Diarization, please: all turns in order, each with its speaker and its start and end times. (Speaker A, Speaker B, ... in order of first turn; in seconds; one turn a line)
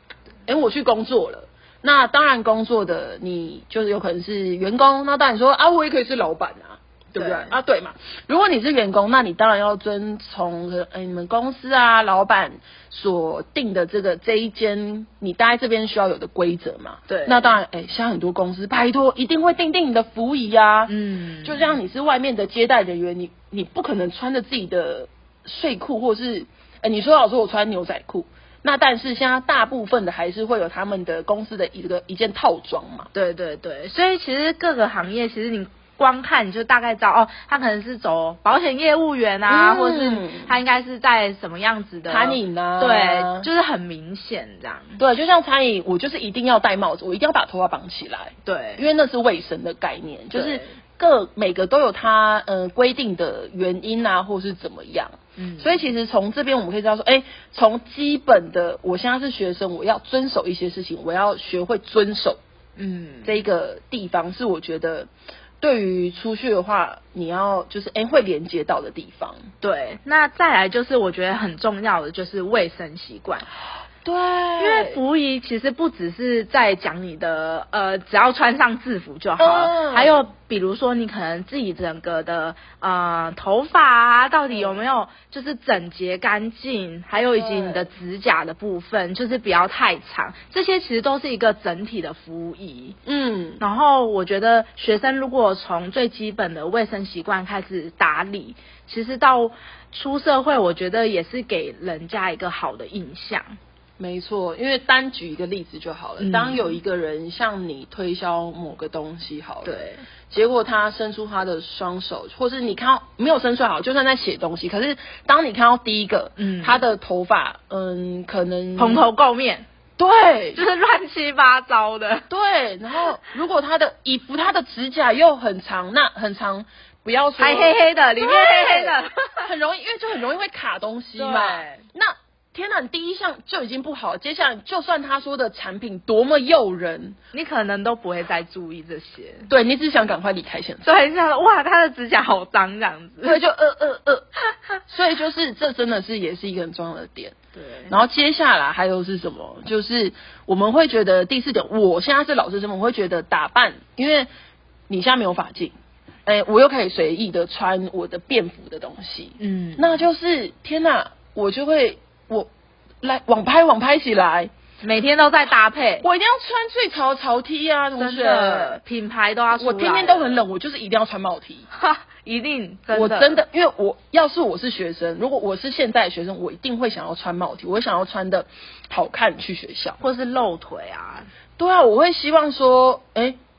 Speaker A: 0.5-33.1
Speaker B: 7.1-7.6
Speaker B: 17.1-17.5
Speaker B: 20.9-21.8
Speaker B: 33.1-45.0
Speaker A: 39.5-40.5
Speaker A: 42.1-43.5
Speaker A: 45.0-62.4
Speaker B: 48.4-48.9
Speaker B: 50.3-50.7
Speaker B: 55.4-55.8
Speaker B: 62.8-63.4
Speaker A: 63.2-65.1
Speaker A: 65.6-69.4
Speaker B: 69.6-73.5
Speaker A: 74.0-75.0
Speaker B: 74.6-93.0
Speaker A: 79.4-80.3
Speaker A: 84.5-84.8
Speaker A: 87.3-87.9
Speaker A: 93.0-93.6
Speaker B: 93.6-103.6
Speaker A: 104.0-119.1
Speaker B: 106.2-106.8
Speaker B: 109.6-110.0
Speaker B: 116.4-116.8
Speaker B: 118.8-119.7
Speaker A: 120.0-120.6
Speaker B: 120.5-122.2
Speaker A: 122.3-137.2
Speaker B: 127.4-129.4
Speaker B: 131.1-131.8
Speaker B: 137.3-139.5
Speaker A: 139.5-140.9
Speaker B: 140.8-143.4
Speaker A: 143.2-144.2
Speaker A: 144.9-147.3
Speaker B: 147.5-148.0
Speaker A: 147.9-154.3
Speaker A: 154.9-155.7
Speaker A: 156.2-162.5
Speaker B: 159.4-160.1
Speaker A: 163.0-164.5
Speaker B: 164.8-166.1
Speaker A: 166.0-168.8
Speaker B: 167.9-170.4
Speaker A: 169.5-171.7
Speaker B: 171.7-173.4
Speaker A: 172.9-180.0
Speaker B: 180.0-181.3
Speaker A: 181.6-183.4